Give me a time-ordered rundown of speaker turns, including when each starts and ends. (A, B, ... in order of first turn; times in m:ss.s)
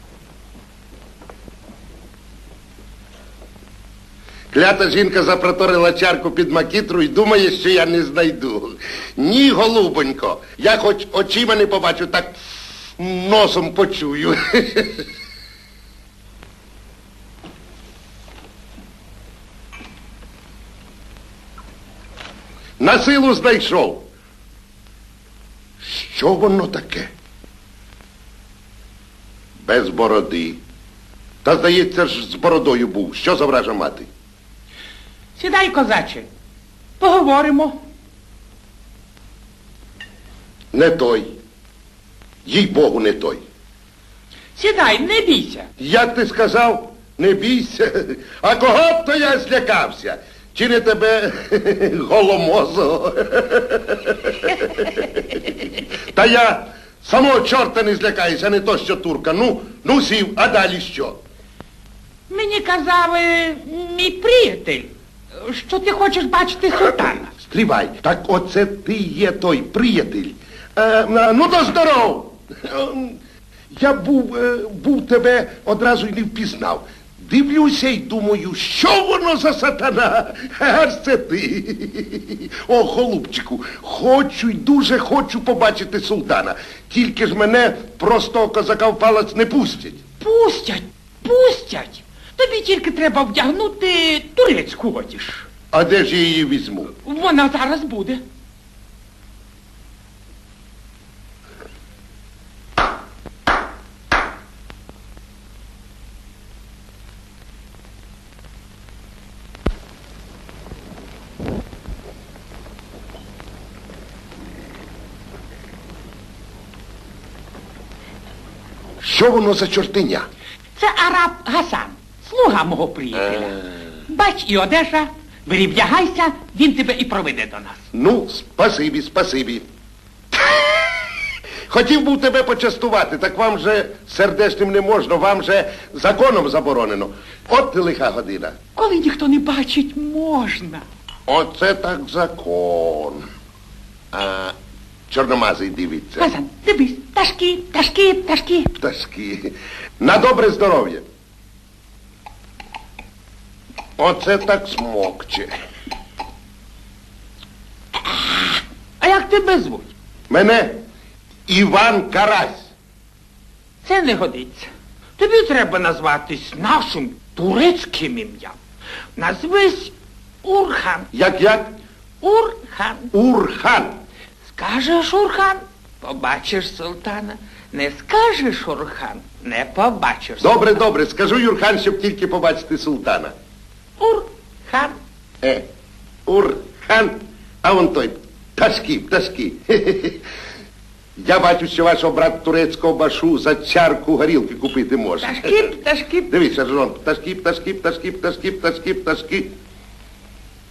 0:04.5-0:15.1 A
0:22.8-0:24.1 A
0:25.8-0:27.1 A
0:29.6-0:30.6 A
0:31.4-0:34.1 A
0:35.4-0:36.3 B
0:37.0-0:37.8 B
0:40.7-0:41.4 A
0:42.5-0:43.4 A
0:44.6-0:45.7 B
0:45.8-0:55.5 A
0:56.1-1:01.2 A
1:02.3-1:07.3 B
1:07.4-1:13.2 A
1:13.7-1:30.0 A
1:30.2-1:35.5 B
1:35.7-1:36.9 A
1:37.0-1:38.2 B
1:59.0-2:00.3 A
2:00.8-2:07.8 B
2:07.9-2:09.6 A
2:10.3-2:11.1 A
2:11.7-2:18.6 A
2:18.8-2:20.8 B
2:21.3-2:23.2 A
2:24.1-2:24.5 A
2:25.1-2:26.3 A
2:26.2-2:28.7 B
2:28.8-2:31.0 A
2:34.0-2:35.5 A
2:38.0-2:39.9 B
2:40.3-2:40.8 A
2:41.5-2:42.7 A
2:43.8-2:48.6 B
2:49.2-2:49.9 B
2:50.4-2:51.1 B
2:51.1-2:51.7 A
2:52.2-2:53.1 B
2:53.1-2:54.0 A
2:54.5-3:00.8 B
3:00.4-3:03.3 A
3:04.0-3:05.0 B
3:06.3-3:10.2 A
3:11.2-3:15.7 A
3:15.2-3:16.3 B
3:16.3-3:19.5 A